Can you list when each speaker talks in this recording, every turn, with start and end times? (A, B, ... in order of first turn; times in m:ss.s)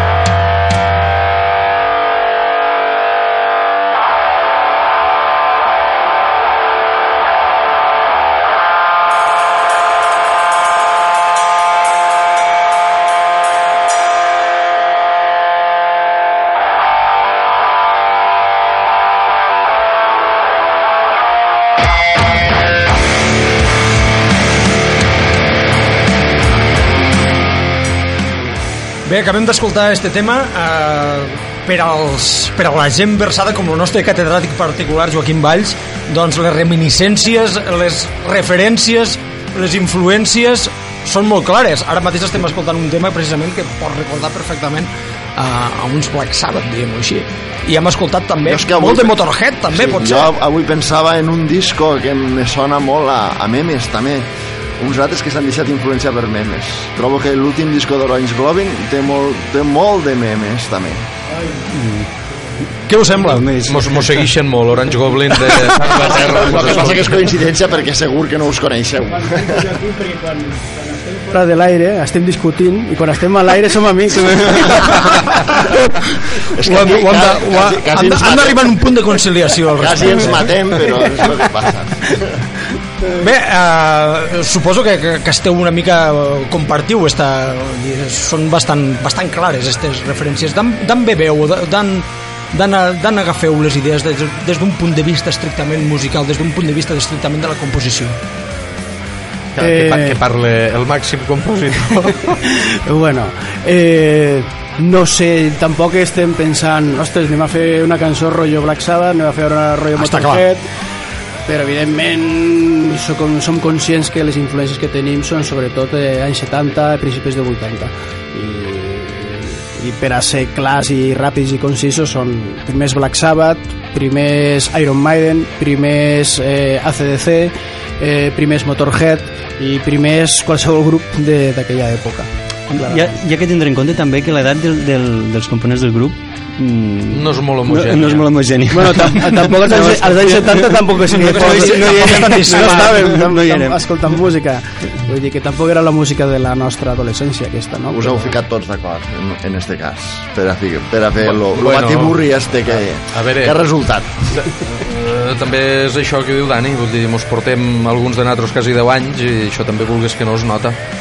0:29.0-0:50.3 A
0:48.4-0:49.1 B
0:49.7-0:54.3 B
0:54.8-1:01.0 B
1:01.7-1:02.1 C
1:02.9-1:03.4 A
1:03.1-1:04.3 C
1:03.6-1:07.2 D
1:05.9-1:09.7 B
1:09.2-1:15.3 E
1:15.0-1:15.8 A
1:16.5-1:18.7 B
1:16.6-1:20.5 A
1:19.8-1:22.4 B
1:23.1-1:38.2 A
1:39.6-1:42.4 D
1:39.6-1:40.2 E
1:42.2-1:50.6 E
1:50.0-1:50.4 A
1:51.5-2:13.0 E
2:12.7-2:23.8 C
2:17.1-2:18.3 D
2:18.7-2:28.3 E
2:21.1-2:22.9 A
2:27.9-2:34.3 B
2:31.3-2:33.6 D
2:34.3-2:40.8 D